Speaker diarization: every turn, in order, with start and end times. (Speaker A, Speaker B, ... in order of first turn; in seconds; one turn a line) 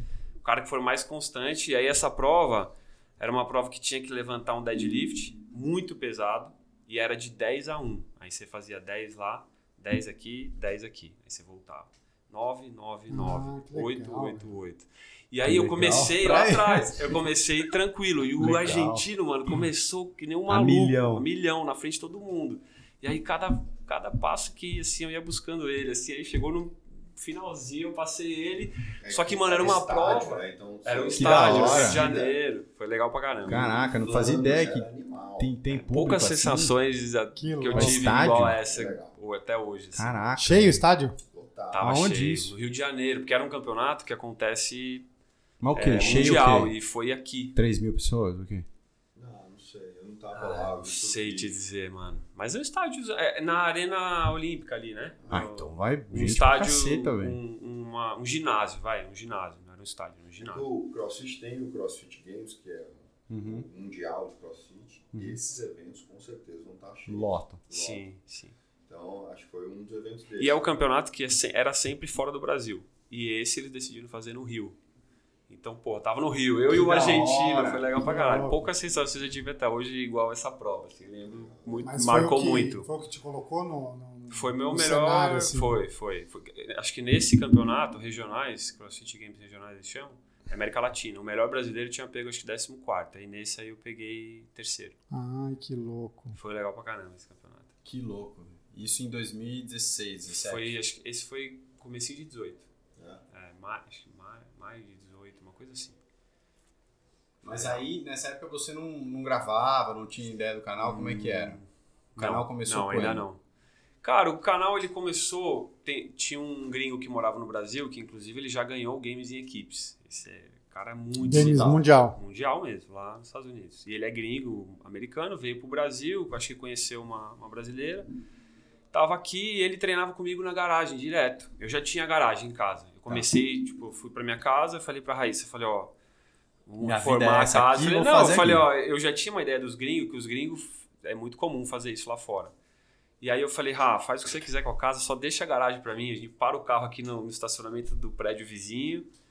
Speaker A: 0.4-33.8
Speaker B: 13.1-14.6
Speaker C: 15.4-17.2
Speaker C: 18.4-19.1
Speaker C: 20.5-21.3
Speaker D: 29.0-32.4
Speaker C: 31.2-32.1
Speaker C: 33.5-36.8
Speaker D: 33.5-35.6
Speaker A: 35.7-40.3
Speaker B: 37.4-38.0
Speaker C: 37.7-38.6
Speaker D: 38.1-39.1
Speaker C: 39.9-40.8
Speaker B: 40.4-41.2
Speaker D: 41.3-42.0
Speaker A: 41.7-45.1
Speaker C: 41.8-42.5
Speaker C: 45.6-46.8
Speaker A: 45.7-47.6
Speaker C: 47.5-48.7
Speaker D: 49.1-51.6
Speaker A: 50.3-60.7
Speaker D: 55.2-55.5
Speaker C: 55.3-57.4
Speaker D: 60.4-68.0
Speaker C: 63.3-63.7
Speaker C: 67.1-67.6
Speaker A: 67.7-68.5
Speaker D: 68.9-70.7
Speaker A: 70.4-74.8
Speaker A: 75.5-82.9
Speaker C: 76.7-77.9
Speaker B: 78.0-78.6
Speaker D: 81.2-81.9
Speaker B: 81.8-85.8
Speaker A: 84.3-95.0
Speaker B: 95.1-96.4
Speaker A: 96.3-97.7
Speaker C: 97.8-100.7
Speaker A: 100.3-102.7
Speaker D: 103.0-103.2
Speaker A: 103.3-106.0
Speaker A: 107.4-107.8
Speaker C: 107.4-111.6
Speaker A: 110.8-111.7
Speaker C: 112.2-113.2
Speaker A: 112.2-113.4
Speaker A: 114.0-128.1
Speaker B: 121.2-122.2
Speaker A: 128.9-135.9
Speaker A: 136.7-142.5
Speaker C: 136.8-138.7
Speaker A: 143.2-149.1